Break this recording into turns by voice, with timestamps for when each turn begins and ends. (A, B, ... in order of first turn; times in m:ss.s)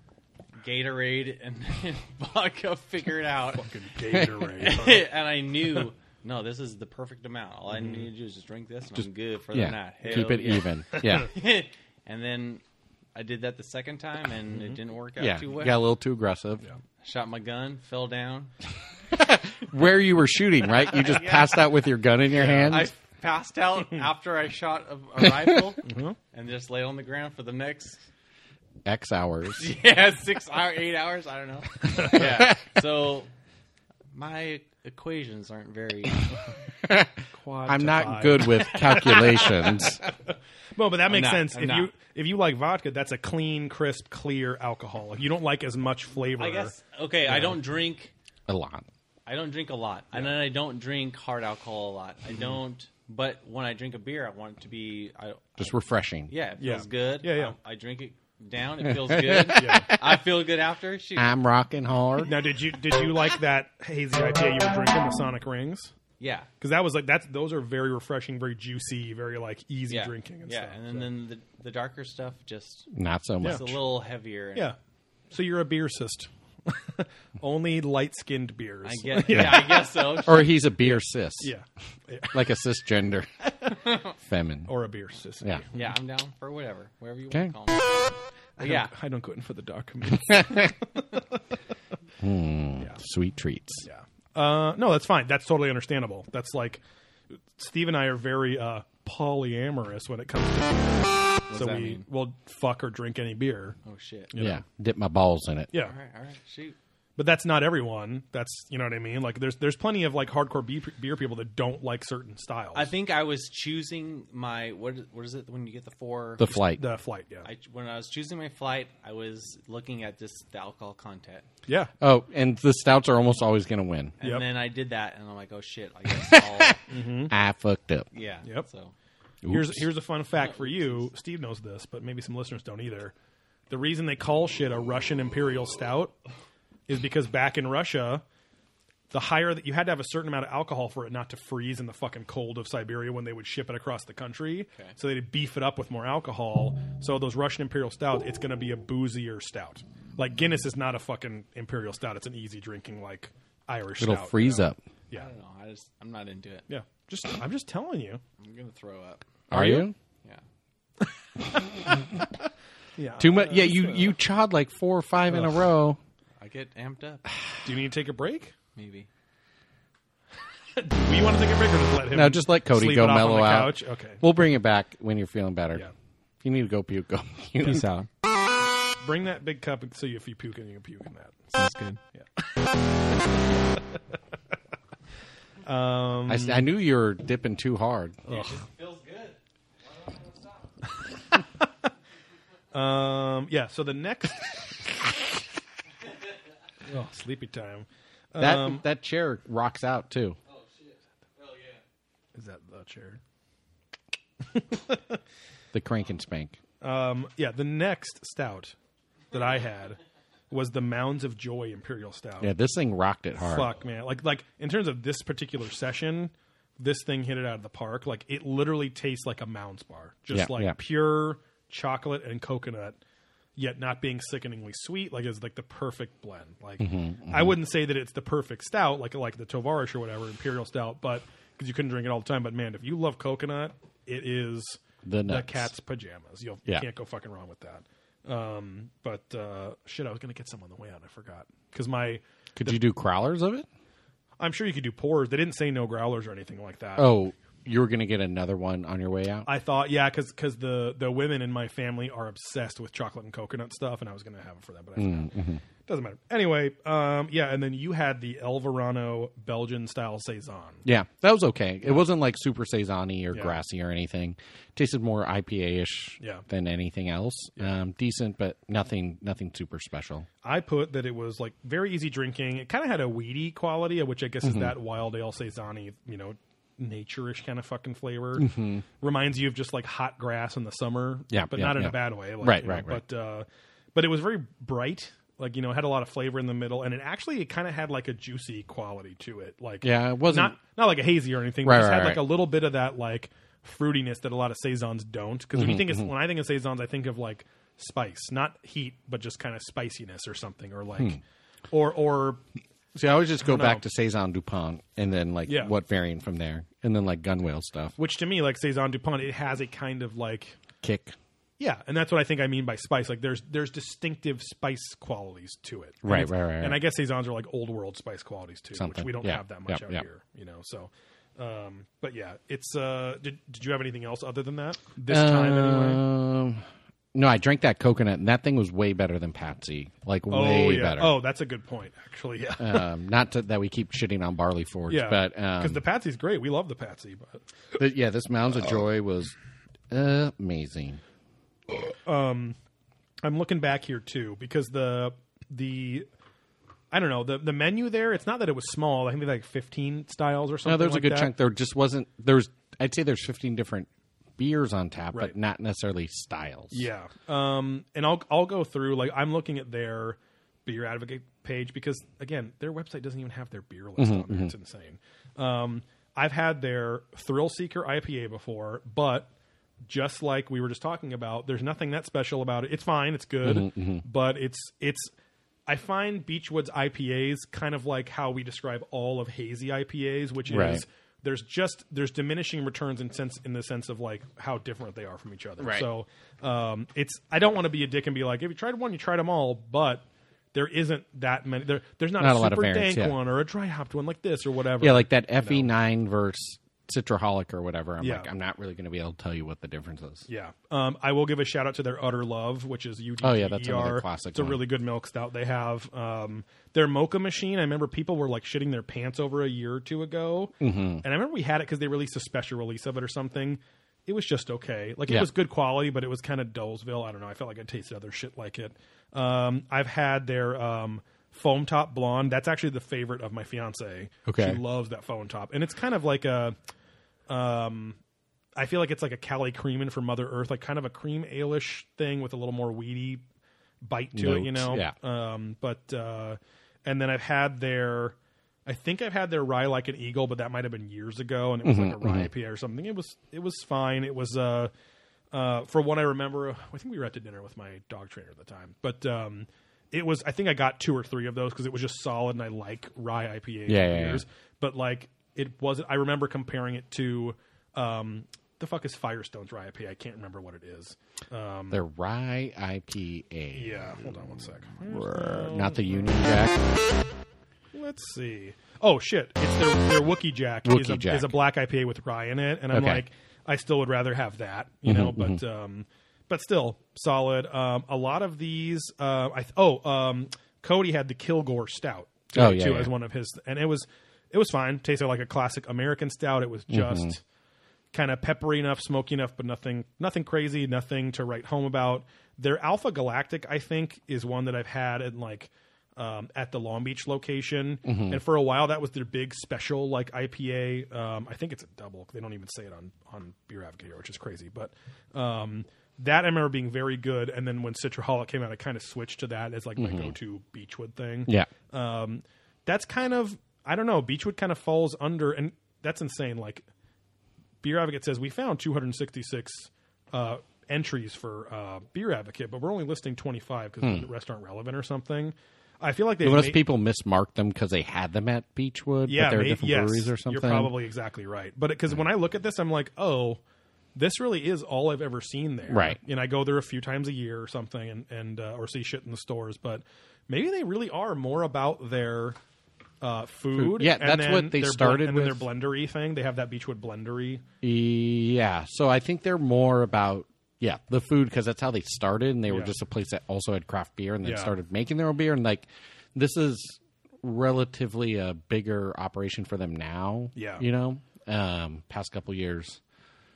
0:00.6-0:03.7 A
0:03.5-0:05.1 B
0:04.1-0:04.5 C
0:04.6-0:12.6 A
0:07.7-0:08.0 B
0:09.0-0:11.3 C
0:10.1-0:10.3 B
0:13.1-0:15.8 A
0:15.2-0:16.6 C
0:17.0-0:18.5 A
0:19.1-0:22.9 C
0:20.8-0:21.7 A
0:22.3-0:22.8 B
0:22.6-0:28.0 A
0:25.2-0:25.5 C
0:25.8-0:26.2 B
0:28.8-0:29.7 C
0:29.5-0:33.3 A
0:32.1-0:32.6 C
0:34.1-0:36.4 A
0:36.8-0:40.0 C
0:37.3-0:40.1 B
0:39.0-0:39.8 A
0:40.7-0:46.7 B
0:41.1-0:41.9 A
0:46.3-0:48.1 A
0:47.2-0:47.6 B
0:48.5-0:48.9 C
0:49.2-0:55.7 A
0:50.1-0:50.4 B
0:55.6-0:56.3 C
0:56.3-1:01.3 A
0:56.6-0:57.6 B
0:58.8-1:00.2 C
0:59.5-0:59.9 B
1:01.2-1:02.4 C
1:02.2-1:05.9 B
1:06.2-1:06.5 A
1:06.6-1:11.1 B
1:09.9-1:12.9 A
1:12.9-1:13.8 C
1:13.4-1:14.7 A
1:13.4-1:13.7 B
1:15.3-1:20.2 B
1:18.8-1:20.6 A
1:19.3-1:21.5 C
1:20.8-1:22.4 B
1:22.3-1:23.3 C
1:24.2-1:24.7 C
1:24.7-1:25.8 B
1:25.7-1:28.9 A
1:28.6-1:31.3 B
1:30.2-1:30.7 C
1:32.2-1:33.9 C
1:33.8-1:36.8 B
1:37.5-1:43.8 B
1:41.5-1:42.0 A
1:43.8-1:44.3 A
1:44.3-1:44.6 B
1:44.4-1:45.7 C
1:45.8-1:46.8 A
1:47.2-1:52.9 B
1:52.7-1:56.6 A
1:56.4-1:56.8 C
1:56.5-1:57.5 B
1:57.4-2:01.5 A
2:01.6-2:01.9 B
2:02.0-2:04.2 C
2:04.2-2:06.8 A
2:04.2-2:04.5 B
2:06.3-2:06.7 C
2:06.9-2:07.3 B
2:07.3-2:08.1 C
2:08.1-2:08.9 A
2:09.4-2:09.9 C
2:09.4-2:13.1 B
2:10.4-2:11.1 A
2:13.7-2:16.2 B
2:16.9-2:18.2 B
2:19.1-2:35.3 B
2:34.0-2:34.8 C
2:35.1-2:36.7 A
2:36.7-2:38.2 B
2:38.4-2:39.2 A
2:39.5-2:39.9 C
2:39.5-2:39.9 B
2:43.0-2:44.1 B
2:43.2-2:46.0 C
2:45.3-2:45.6 B
2:46.4-2:47.2 A
2:47.6-2:48.5 B
2:48.7-2:49.1 A
2:50.8-2:54.2 B
2:52.1-2:55.9 C
2:56.4-2:57.9 C
2:57.6-2:58.1 A
2:59.0-3:01.4 B
3:01.5-3:02.0 A
3:05.6-3:06.7 B
3:06.3-3:08.2 C
3:08.3-3:10.7 A
3:08.3-3:08.5 B
3:12.7-3:14.7 B
3:16.9-3:18.8 B
3:18.4-3:20.4 C
3:20.5-3:21.8 A
3:22.3-3:23.2 B
3:24.5-3:25.2 B
3:25.7-3:26.6 C
3:26.8-3:28.7 B
3:29.3-3:30.0 B
3:30.5-3:32.5 B
3:32.4-3:33.7 C
3:33.4-3:43.0 B
3:40.3-3:40.8 C
3:43.6-4:02.8 B
3:46.8-3:47.6 C
3:55.0-3:55.7 C
4:02.6-4:03.6 C
4:04.4-4:07.2 B
4:07.0-4:09.5 C
4:09.4-4:20.8 B
4:15.0-4:15.6 C
4:20.8-4:30.3 C
4:30.4-5:02.4 B
4:34.4-4:34.7 C
4:38.4-4:38.8 C
4:41.3-4:43.0 C
4:49.8-4:50.6 C
4:51.6-4:52.2 C
4:55.5-4:56.1 C
5:02.9-5:07.9 C
5:03.4-5:03.8 B
5:05.4-5:05.7 B
5:08.0-5:10.6 B
5:10.8-5:11.2 C
5:11.6-5:26.0 B
5:16.0-5:16.8 C
5:18.7-5:20.0 C
5:25.1-5:31.1 C
5:30.3-5:32.9 B
5:32.6-5:35.8 C
5:34.9-5:37.4 B
5:37.8-5:39.3 C
5:39.9-5:41.0 C
5:42.0-5:42.6 B
5:43.2-5:46.1 B
5:46.9-5:51.3 B
5:50.6-5:56.9 C
5:56.7-6:09.3 B
6:04.0-6:04.5 C
6:09.8-6:15.1 B
6:13.4-6:14.0 C
6:15.7-6:35.7 B
6:20.5-6:20.8 C
6:25.6-6:25.9 C
6:32.2-6:33.2 C
6:34.8-6:40.3 C
6:38.0-6:38.3 B
6:40.3-7:06.6 B
6:43.2-6:44.6 C
6:50.6-6:51.0 C
7:04.2-7:04.6 C
7:07.3-7:08.0 B
7:08.6-7:13.2 B
7:13.8-7:24.7 B
7:14.1-7:14.9 C
7:21.6-7:22.3 C
7:25.3-7:41.8 B
7:33.7-7:34.2 C
7:41.7-7:43.8 C
7:43.5-7:46.2 B
7:44.9-7:46.6 C
7:47.7-8:07.2 B
7:50.6-7:51.3 C
7:52.7-7:53.0 C
7:54.8-7:55.4 C
8:02.3-8:02.9 C
8:06.7-8:07.1 C
8:07.9-8:36.6 B
8:17.8-8:18.2 C
8:29.8-8:30.2 C
8:37.6-8:46.6 B
8:43.8-8:44.1 C
8:46.2-8:50.7 C
8:49.1-8:53.4 B
8:53.9-9:02.4 B
8:55.7-8:56.0 C
9:03.0-9:07.4 B
9:03.5-9:05.5 C
9:07.6-9:22.8 C
9:12.5-9:12.7 B
9:14.2-9:14.5 B
9:20.3-9:20.6 B